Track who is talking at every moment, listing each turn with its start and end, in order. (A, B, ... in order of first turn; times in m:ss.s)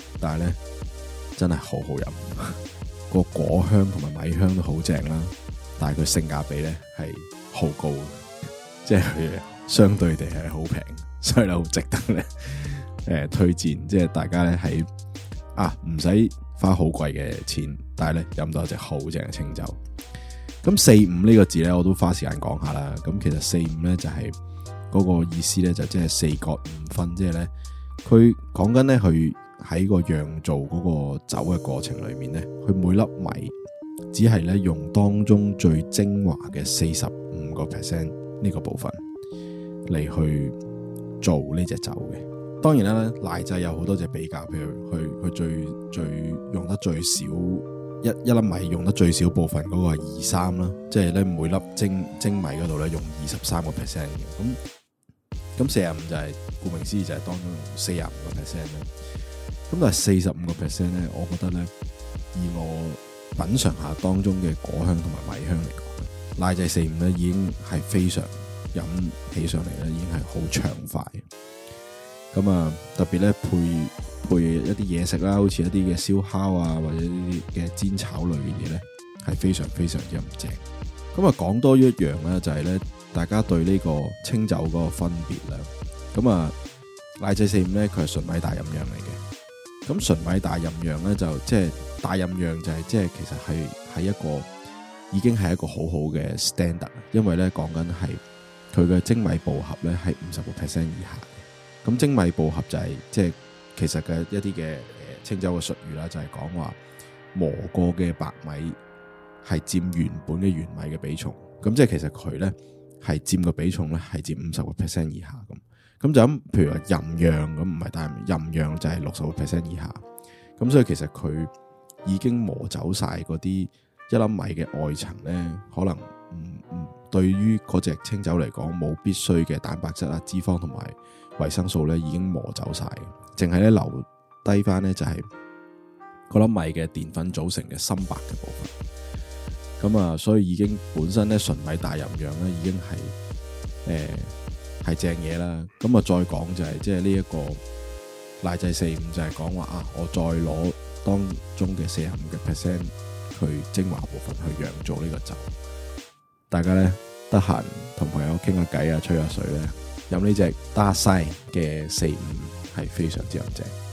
0:00.2-0:00.6 A
0:01.4-0:14.9 A
0:15.5-0:19.8 A
0:20.6-0:24.3 A
0:24.9-0:27.5 A
0:28.0-0:33.5 A
0:34.1-0:39.0 A
0:39.9-0:40.6 A
0:41.2-0:54.6 A
0:55.6-0:58.9 A
0:59.7-1:01.7 A
1:02.3-1:11.2 A
1:12.3-1:20.6 A
1:21.1-1:26.5 A
1:27.2-1:29.2 A
1:29.8-1:34.5 A
1:35.1-1:38.2 A
1:38.7-1:46.8 A
1:47.3-1:48.8 A
1:49.4-2:00.0 A
2:00.6-2:01.5 A
2:02.0-2:15.2 A
2:16.3-2:18.7 A
2:19.8-2:23.1 A
2:23.8-2:27.6 A
2:28.4-2:35.5 A
2:36.5-2:43.7 A